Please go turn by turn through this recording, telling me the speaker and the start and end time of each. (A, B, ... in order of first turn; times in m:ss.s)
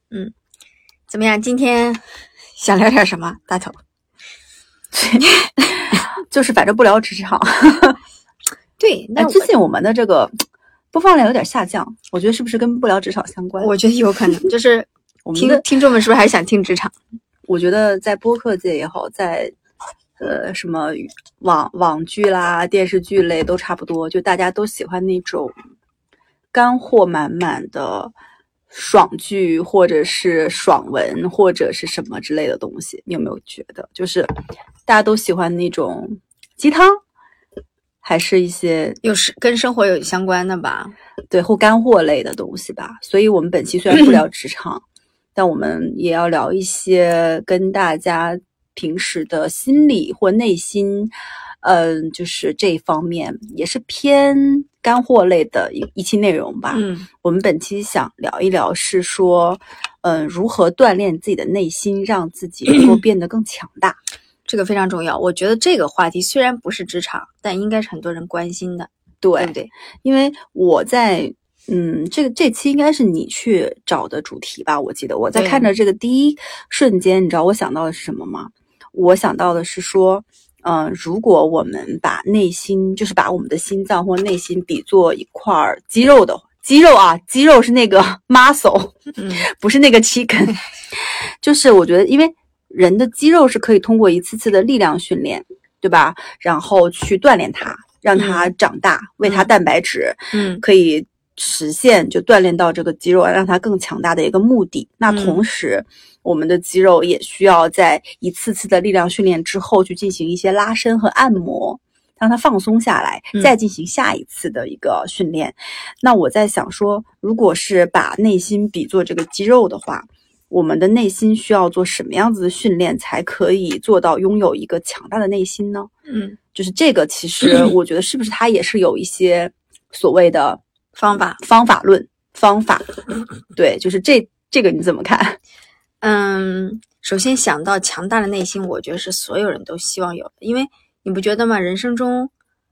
0:01.1-0:02.0 A
0:02.6-0:03.8 A
0:04.9-0:08.0 B
0:08.8-0:09.5 A
0:09.2-0:10.3 B
0:10.9-0:13.7 B
0:13.6-0:16.9 A
0:15.3-0:15.6 B
0:17.5-0:19.5 B
0:20.2-0:25.6 B
0:26.5-0:28.1 B
0:28.7-0:34.3 B
0:34.9-0:37.0 B
0:38.0-0:39.0 B
0:39.0-0:40.9 A
0:41.3-1:04.0 B
0:56.7-0:57.1 A
1:04.5-1:09.7 A
1:09.2-2:05.9 B
1:15.3-1:15.7 A
1:29.2-1:29.4 A
1:38.2-1:38.5 A
1:39.2-1:39.5 A
1:40.3-1:40.6 A
1:45.1-1:45.4 A
2:06.1-2:06.4 A
2:06.6-2:10.6 B
2:11.0-2:11.4 A
2:11.3-2:13.0 B
2:13.6-2:15.4 B
2:16.0-2:22.3 A